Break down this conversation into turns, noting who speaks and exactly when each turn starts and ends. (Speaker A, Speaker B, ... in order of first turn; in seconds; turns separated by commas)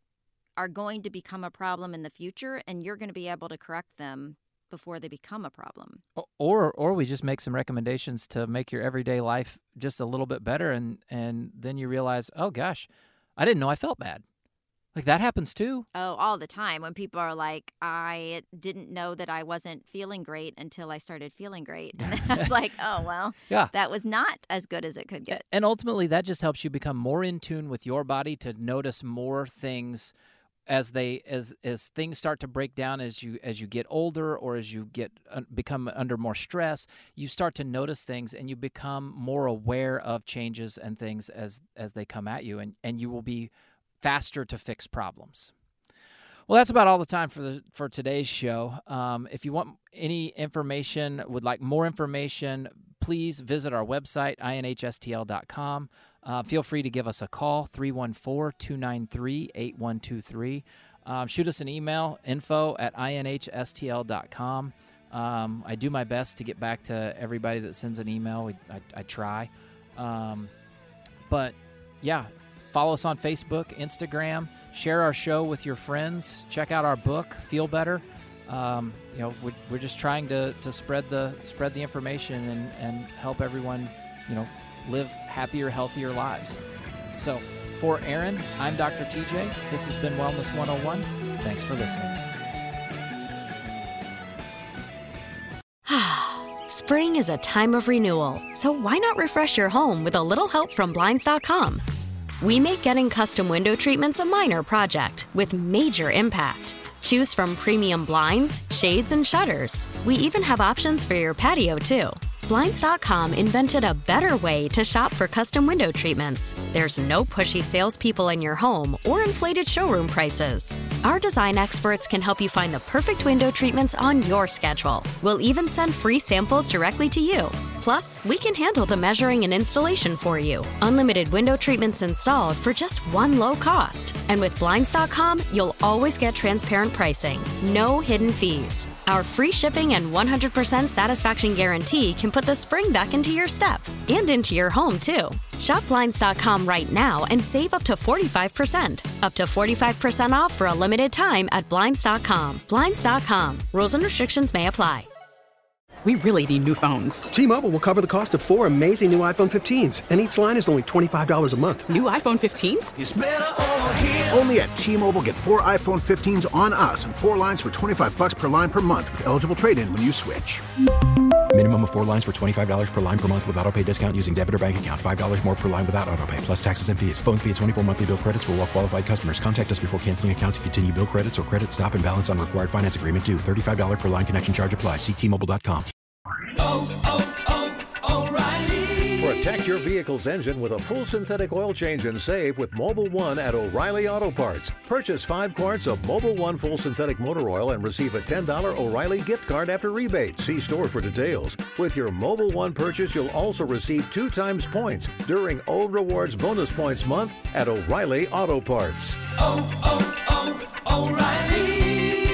Speaker A: 0.6-6.0, Speaker B: 6.2-14.2, Speaker B: 14.9-15.9, Speaker A: 15.9-25.4, Speaker B: 22.1-22.5, Speaker B: 25.3-30.1, Speaker B: 30.7-45.5, Speaker B: 46.5-70.5, Speaker B: 71.3-86.6, Speaker B: 87.2-92.2, Speaker C: 95.9-101.8, Speaker C: 102.4-155.1, Speaker D: 156.1-157.3, Speaker E: 157.3-161.9, Speaker D: 161.9-163.0, Speaker F: 163.0-170.6, Speaker G: 171.5-185.9, Speaker H: 189.1-209.2, Speaker H: 210.8-211.8